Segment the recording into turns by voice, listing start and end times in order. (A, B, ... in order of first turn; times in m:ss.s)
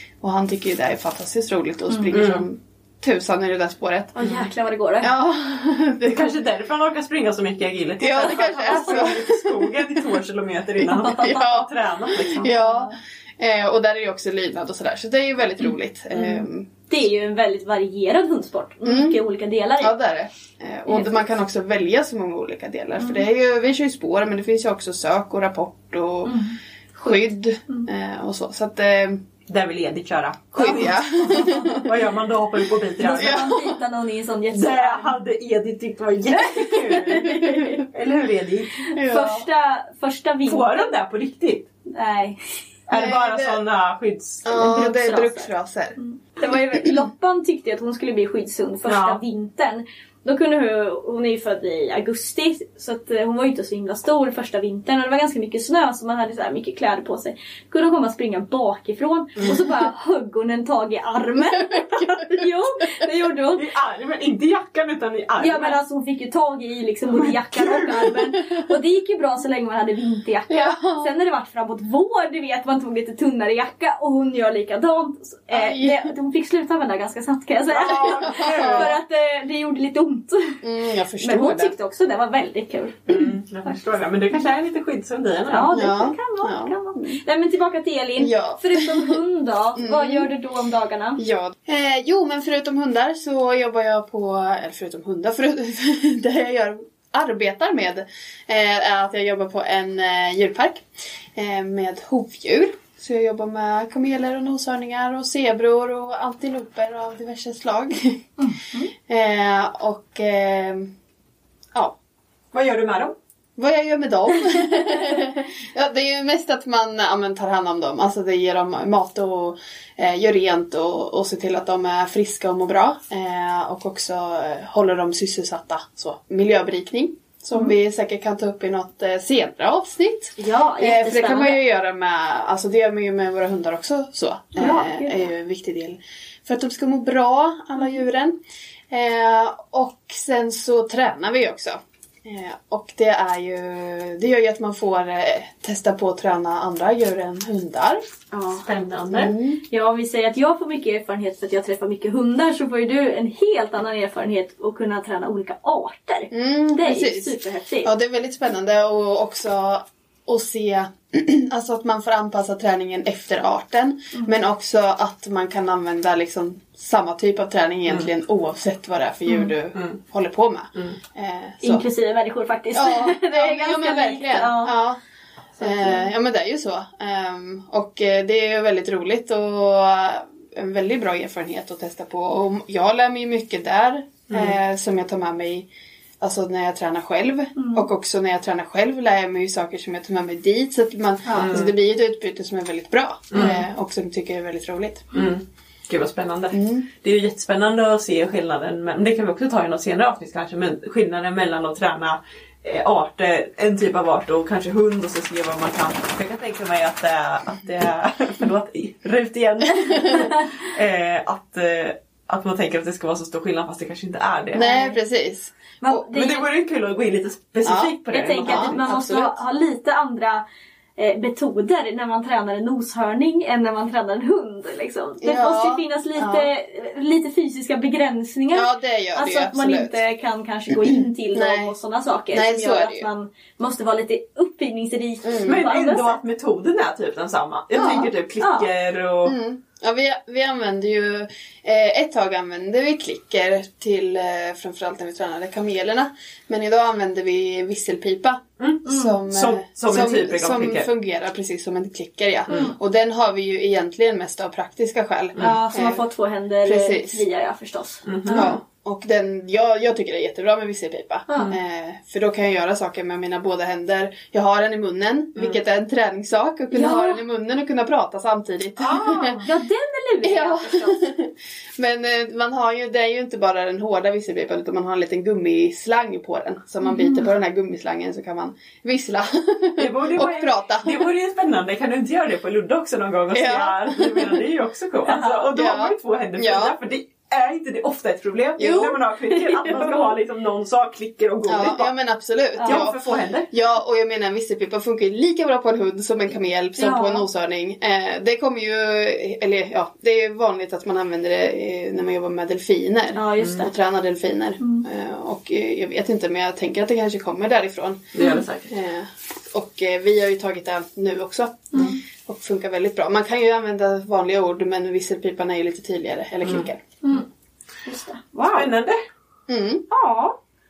0:00.2-0:04.1 A
0:02.1-0:02.4 B
0:04.1-0:05.1 C
0:05.0-0:06.3 A
0:06.0-0:12.5 B
0:08.0-0:09.8 A
0:08.4-0:09.1 C
0:11.0-0:11.5 C
0:11.1-0:16.7 A
0:12.2-0:12.9 C
0:16.2-0:16.4 B
0:16.9-0:19.9 C
0:18.8-0:19.2 A
0:19.8-0:26.4 A
0:20.9-0:21.1 C
0:26.2-0:26.6 C
0:27.0-0:29.2 A
0:29.5-0:33.5 B
0:30.6-0:31.8 A
0:30.7-0:31.8 C
0:33.0-0:35.2 C
0:33.1-0:33.7 A
0:34.5-0:38.8 B
0:36.5-0:37.8 C
0:38.9-0:40.9 C
0:38.9-0:39.5 A
0:40.5-0:41.7 B
0:41.8-0:42.4 C
0:42.9-0:44.5 B
0:42.9-0:43.6 A
0:44.4-0:46.0 A
0:44.5-1:03.6 C
0:48.8-0:49.2 B
1:03.6-1:05.8 B
1:05.4-1:20.6 C
1:07.2-1:08.1 B
1:10.5-1:11.2 A
1:15.5-1:16.1 A
1:17.7-1:18.9 B
1:17.8-1:18.9 A
1:20.6-1:21.7 A
1:21.2-1:23.8 C
1:23.1-1:25.7 B
1:25.5-1:31.2 C
1:25.7-1:27.2 A
1:28.2-1:29.2 A
1:29.8-1:30.3 A
1:31.2-1:48.2 A
1:48.4-1:48.9 C
1:49.0-1:50.9 A
1:52.5-1:53.1 B
1:53.6-2:18.4 A
1:54.5-1:55.1 C
2:10.4-2:11.6 C
2:14.6-2:15.2 C
2:18.9-2:28.0 A
2:28.3-2:28.6 C
2:28.6-2:29.3 B
2:29.1-2:29.6 A
2:29.7-2:37.9 C
2:36.3-2:51.8 A
2:51.6-2:54.7 C
2:52.7-2:55.0 A
2:55.6-3:05.7 A
2:55.6-2:56.0 C
3:04.3-3:04.6 B
3:06.2-3:15.1 A
3:07.6-3:07.9 C
3:11.3-3:11.5 C
3:11.3-3:11.7 B
3:13.3-3:13.6 B
3:13.4-3:13.6 C
3:15.1-3:34.7 B
3:16.5-3:16.8 A
3:29.9-3:30.4 C
3:34.5-3:36.0 A
3:34.6-3:35.0 C
3:35.8-3:36.5 C
3:36.1-3:38.8 B
3:37.6-3:37.9 A
3:38.1-3:40.4 C
3:38.4-3:39.4 A
3:41.0-3:56.2 C
3:45.2-3:46.5 A
3:48.5-3:50.0 A
3:50.8-3:51.7 A
3:52.3-3:53.1 A
3:55.2-3:55.6 A
3:55.4-3:59.4 B
3:57.8-3:58.1 A
3:57.8-3:58.7 C
3:59.2-4:16.0 A
4:08.6-4:10.9 B
4:08.8-4:09.2 C
4:15.4-4:18.5 C
4:16.6-4:17.2 A
4:18.0-4:18.5 B
4:18.3-4:29.4 A
4:21.3-4:21.6 C
4:26.7-4:27.2 C
4:28.8-4:31.0 C
4:30.2-4:41.1 A
4:36.8-4:37.3 C
4:39.8-4:51.9 B
4:43.3-4:44.4 A
4:45.1-4:45.4 C
4:45.5-4:46.8 A
4:48.6-4:49.0 A
4:48.6-4:50.2 C
4:51.5-5:16.8 A
4:52.6-4:52.8 C
4:52.6-4:53.5 B
4:56.8-4:57.2 C
5:03.1-5:03.7 C
5:04.6-5:04.8 C
5:08.1-5:08.7 B
5:17.8-5:18.7 C
5:18.5-5:19.0 B
5:19.5-5:19.8 A
5:19.9-5:20.4 C